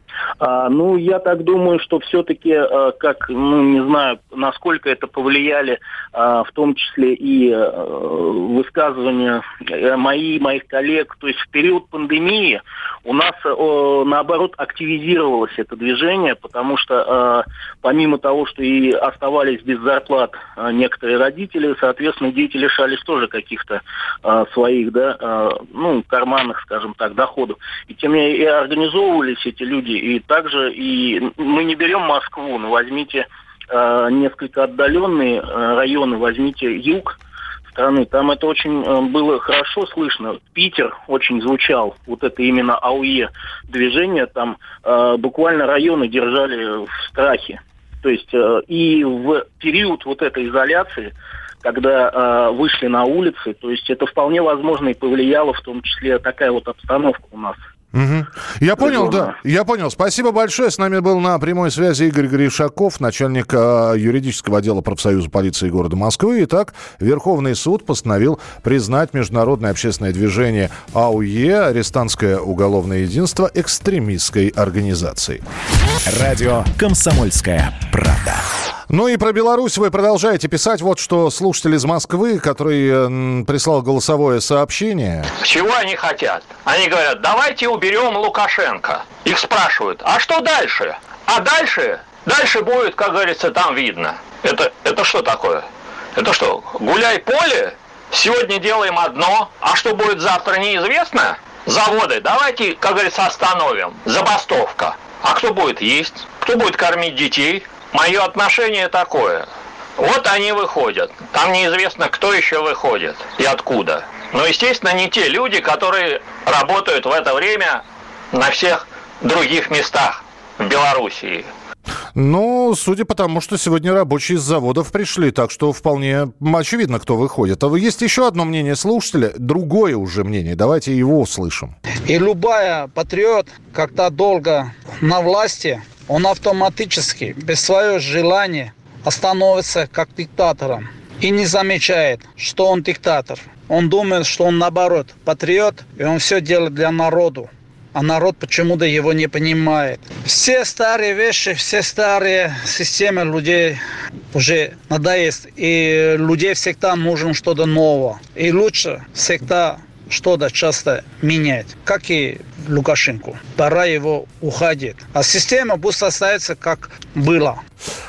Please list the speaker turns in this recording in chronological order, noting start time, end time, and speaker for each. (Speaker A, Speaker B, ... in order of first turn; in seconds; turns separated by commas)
Speaker A: 0.4-37.2, Speaker A: 37.7-57.6, Speaker B: 57.9-75.4, Speaker A: 58.8-59.3, Speaker C: 76.1-78.4, Speaker B: 78.9-85.3, Speaker D: 85.4-95.6, Speaker D: 96.2-109.5, Speaker D: 110.0-121.5, Speaker B: 122.1-131.8, Speaker E: 132.1-153.8, Speaker E: 154.3-167.6